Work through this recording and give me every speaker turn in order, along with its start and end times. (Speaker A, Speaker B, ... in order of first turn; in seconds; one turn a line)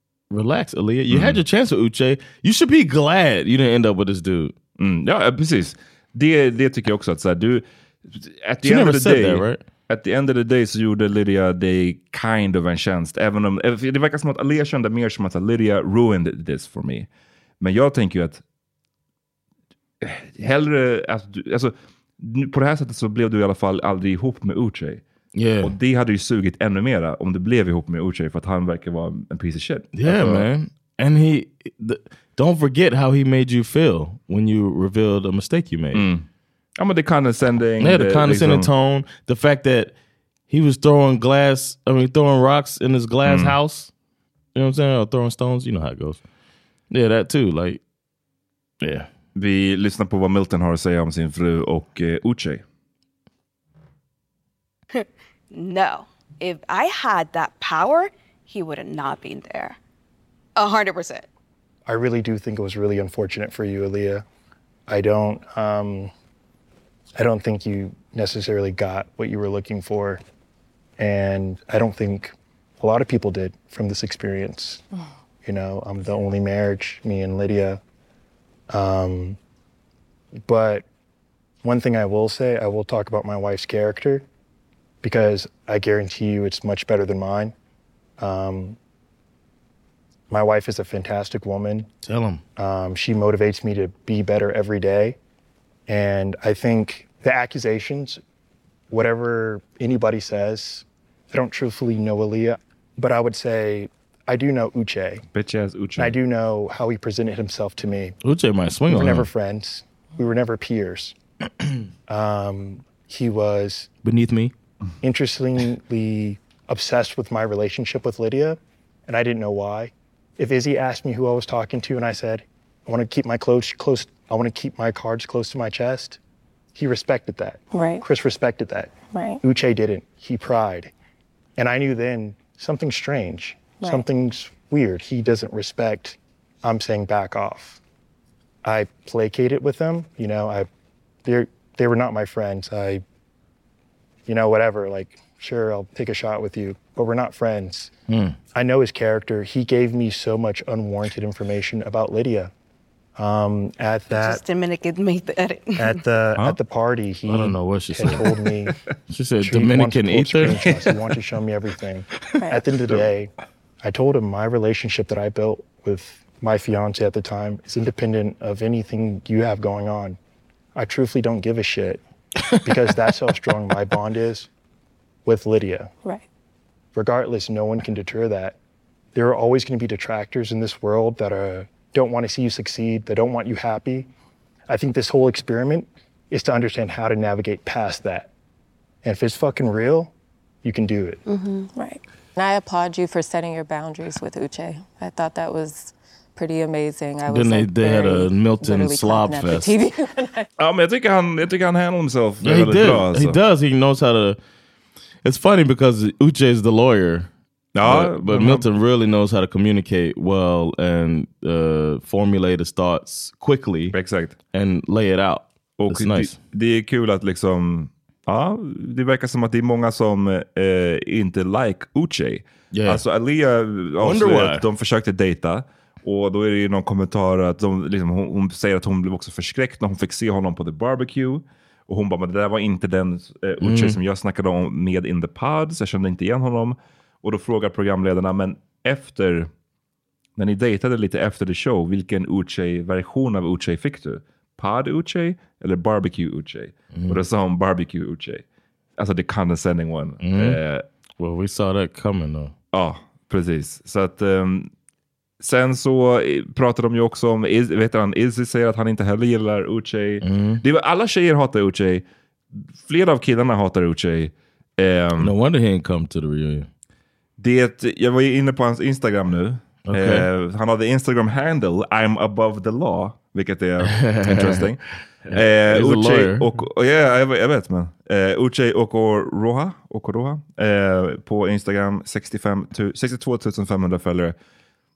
Speaker A: 0.3-4.5
Speaker B: 1.1-1.4
Speaker B: 4.8-17.1
Speaker A: 8.6-9.6
Speaker B: 17.6-18.4
Speaker B: 20.0-25.0
Speaker A: 25.4-25.8
Speaker B: 25.6-30.5
Speaker A: 29.9-36.1
Speaker B: 35.9-36.2
Speaker B: 36.8-38.7
Speaker A: 37.8-39.9
Speaker A: 40.5-43.9
Speaker B: 43.2-43.5
Speaker A: 44.5-46.2
Speaker A: 46.9-47.8
Speaker A: 48.8-49.1
Speaker B: 49.3-52.6
Speaker C: 54.9-59.8
Speaker C: 60.5-61.3
Speaker D: 61.9-64.2
Speaker D: 64.9-66.1
Speaker D: 67.2-70.2
Speaker D: 71.0-74.8
Speaker D: 75.4-77.8
Speaker D: 78.7-79.4
Speaker D: 80.4-80.8
Speaker D: 81.6-84.2
Speaker D: 85.0-87.5
Speaker D: 88.2-88.8
Speaker D: 90.3-91.9
Speaker A: 92.0-92.4
Speaker D: 92.6-95.2
Speaker D: 95.9-98.2
Speaker D: 98.9-105.2
Speaker B: 105.3-106.2
Speaker D: 106.0-108.2
Speaker A: 108.2-109.3
Speaker D: 108.9-111.2
Speaker D: 112.1-113.9
Speaker A: 114.0-114.5
Speaker D: 115.0-126.2
Speaker D: 126.7-130.9
Speaker E: 127.7-128.0
Speaker E: 129.1-129.4
Speaker D: 131.6-137.8
Speaker D: 138.6-140.7
Speaker D: 141.2-143.0
Speaker D: 144.3-147.9
Speaker A: 148.1-148.4
Speaker D: 148.5-152.5
Speaker D: 153.2-154.4
Speaker C: 154.1-156.0
Speaker D: 155.8-158.7
Speaker A: 157.2-158.3
Speaker A: 159.1-160.8
Speaker D: 159.4-163.3
Speaker D: 163.8-170.2
Speaker D: 170.7-172.0
Speaker D: 172.6-174.5
Speaker D: 175.2-175.9
Speaker D: 176.9-178.6
Speaker D: 179.1-184.1
Speaker D: 184.7-188.3
Speaker D: 189.0-190.1
Speaker D: 190.6-191.2
Speaker E: 191.5-200.5
Speaker A: 197.3-199.7
Speaker B: 200.6-203.4
Speaker A: 202.4-204.4
Speaker A: 205.2-207.3
Speaker B: 207.7-208.7
Speaker A: 207.8-213.9
Speaker B: 213.9-214.4
Speaker A: 214.5-216.3
Speaker B: 215.8-239.5
Speaker A: 222.7-223.0
Speaker A: 224.0-224.6
Speaker A: 233.6-234.0
Speaker B: 240.4-248.4
Speaker A: 246.9-247.2
Speaker B: 249.0-250.8
Speaker A: 250.2-250.6
Speaker A: 251.2-252.5
Speaker B: 252.7-254.7
Speaker B: 255.4-265.3
Speaker A: 260.2-260.6
Speaker A: 265.2-266.7
Speaker B: 267.4-274.8
Speaker A: 269.9-270.3
Speaker A: 273.8-274.7
Speaker A: 275.3-276.5
Speaker B: 275.3-284.4